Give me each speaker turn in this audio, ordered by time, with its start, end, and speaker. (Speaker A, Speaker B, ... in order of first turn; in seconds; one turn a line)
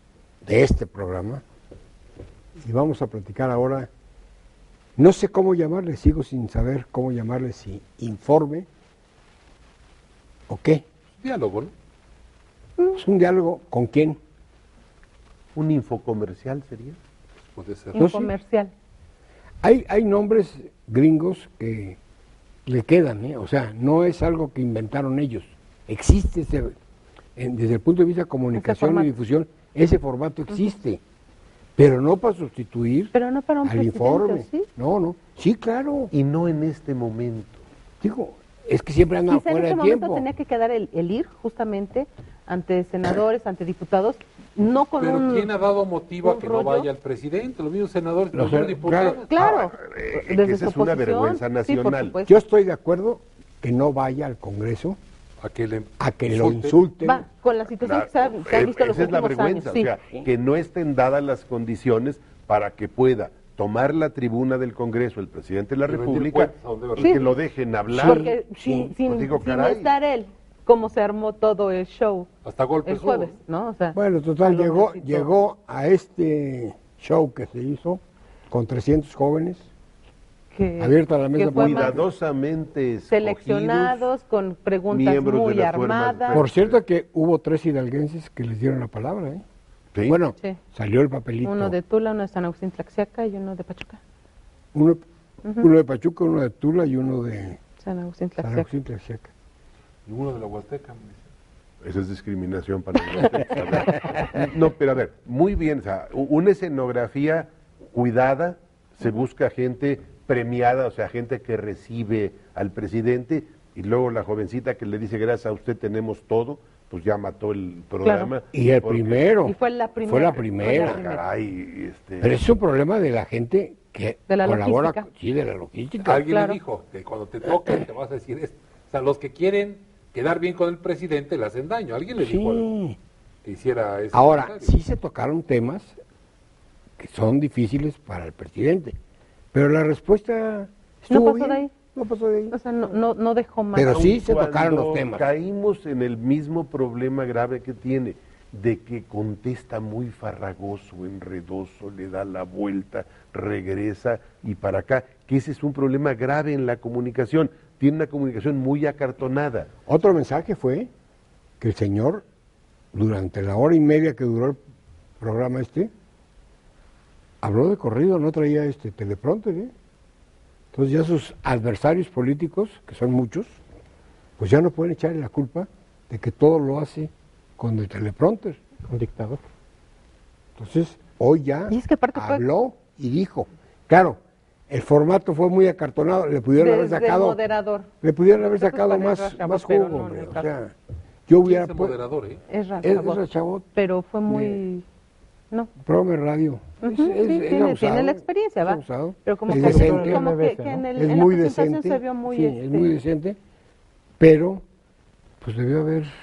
Speaker A: 0.4-1.4
Speaker A: 2.6-3.9
Speaker A: 5.0-8.7
Speaker A: 10.5-10.8
Speaker B: 11.2-11.7
Speaker A: 13.0-14.2
Speaker C: 15.6-17.0
Speaker B: 17.4-18.0
Speaker D: 17.9-18.7
Speaker A: 18.0-18.3
Speaker A: 19.6-22.0
Speaker A: 22.7-26.8
Speaker A: 27.4-31.0
Speaker D: 28.5-29.1
Speaker A: 31.8-33.1
Speaker D: 33.1-34.7
Speaker A: 33.6-36.1
Speaker C: 36.1-37.6
Speaker A: 38.0-40.3
Speaker D: 39.3-45.5
Speaker B: 45.0-49.3
Speaker D: 46.2-46.9
Speaker A: 48.3-49.2
Speaker D: 49.3-52.3
Speaker C: 49.4-52.2
Speaker A: 52.3-55.0
Speaker B: 55.4-56.8
Speaker A: 56.0-57.2
Speaker D: 57.0-60.2
Speaker C: 57.7-68.3
Speaker B: 65.9-67.3
Speaker D: 67.0-67.3
Speaker D: 67.9-72.3
Speaker A: 68.0-68.9
Speaker C: 69.0-70.0
Speaker B: 72.4-73.3
Speaker D: 72.8-75.3
Speaker A: 73.9-79.7
Speaker D: 80.5-82.0
Speaker A: 80.8-82.0
Speaker C: 81.5-84.1
Speaker D: 83.1-86.5
Speaker C: 84.9-86.8
Speaker A: 86.3-89.4
Speaker C: 89.9-90.2
Speaker A: 90.1-91.8
Speaker D: 91.4-94.0
Speaker A: 94.7-95.0
Speaker D: 95.4-95.7
Speaker A: 95.6-97.6
Speaker D: 97.8-98.7
Speaker A: 98.4-99.3
Speaker B: 100.1-101.3
Speaker C: 101.8-119.4
Speaker D: 118.0-118.3
Speaker A: 118.5-121.0
Speaker D: 119.5-121.2
Speaker C: 120.6-122.4
Speaker A: 122.2-126.2
Speaker D: 124.3-125.0
Speaker B: 126.0-132.7
Speaker D: 126.3-126.6
Speaker A: 132.2-133.0
Speaker B: 133.4-134.7
Speaker A: 134.1-136.0
Speaker A: 137.0-139.0
Speaker A: 139.5-142.6
Speaker D: 141.1-141.7
Speaker D: 142.5-144.2
Speaker A: 143.7-145.3
Speaker C: 143.9-159.7
Speaker A: 159.9-160.9
Speaker A: 161.6-162.2
Speaker A: 162.9-164.6
Speaker A: 165.2-165.9
Speaker A: 167.4-169.7
Speaker A: 170.7-173.6
Speaker A: 174.4-178.6
Speaker E: 178.9-179.4
Speaker A: 180.6-184.2
Speaker D: 181.7-182.4
Speaker A: 184.7-187.4
Speaker D: 186.6-190.5
Speaker A: 188.0-190.8
Speaker A: 191.3-192.0
Speaker B: 191.4-192.4
Speaker D: 192.5-193.2
Speaker A: 192.8-193.7
Speaker D: 193.8-194.8
Speaker A: 194.3-194.6
Speaker A: 195.8-200.3
Speaker D: 196.8-203.0
Speaker E: 199.5-200.9
Speaker A: 200.9-203.4
Speaker A: 204.2-204.6
Speaker A: 205.4-206.1